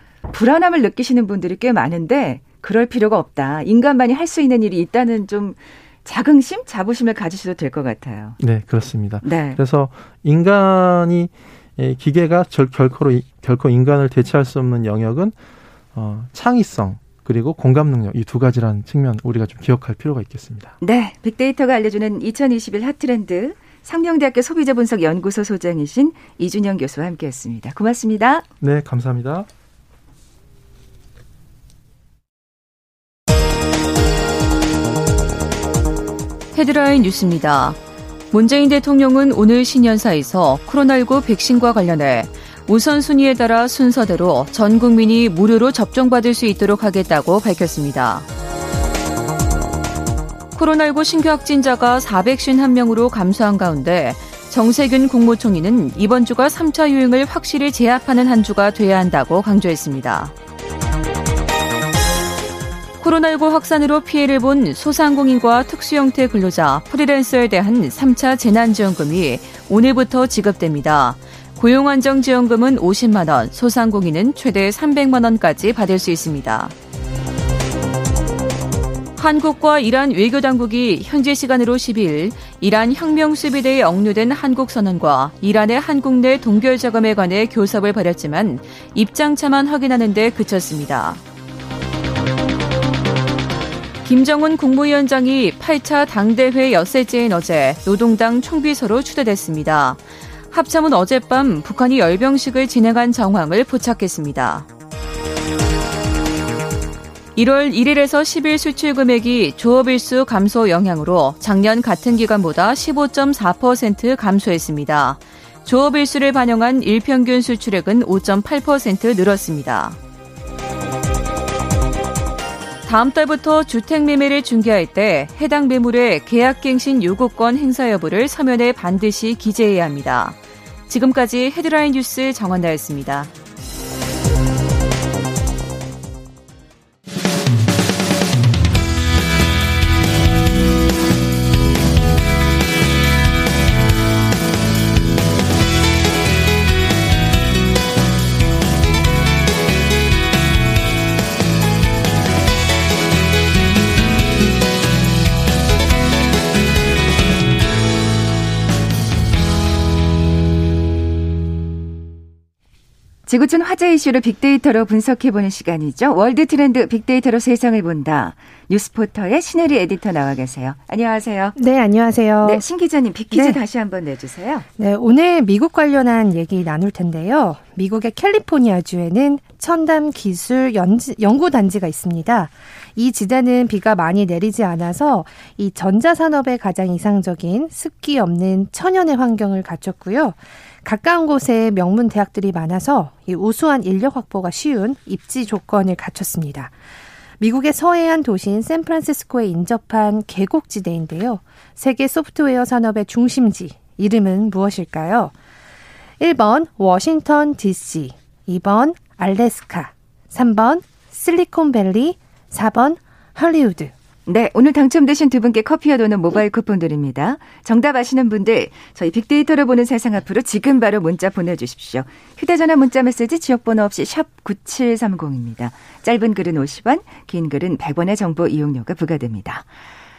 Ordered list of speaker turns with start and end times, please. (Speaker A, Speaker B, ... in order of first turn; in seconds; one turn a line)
Speaker A: 0.3-8.4
Speaker B: 8.4-15.3
Speaker A: 9.2-9.6
Speaker B: 15.9-20.8
Speaker A: 20.8-28.4
Speaker B: 28.6-29.5
Speaker C: 36.5-37.8
Speaker C: 38.3-48.2
Speaker C: 50.5-60.3
Speaker C: 63.0-76.7
Speaker C: 79.2-91.2
Speaker C: 94.0-104.7
Speaker C: 107.3-120.0
Speaker C: 122.8-130.4
Speaker C: 130.9-133.3
Speaker A: 163.3-171.6
Speaker D: 171.6-172.6
Speaker A: 172.4-174.7
Speaker D: 173.3-173.6
Speaker D: 174.8-196.7
Speaker D: 197.4-205.3
Speaker D: 206.2-213.9
Speaker A: 214.2-229.7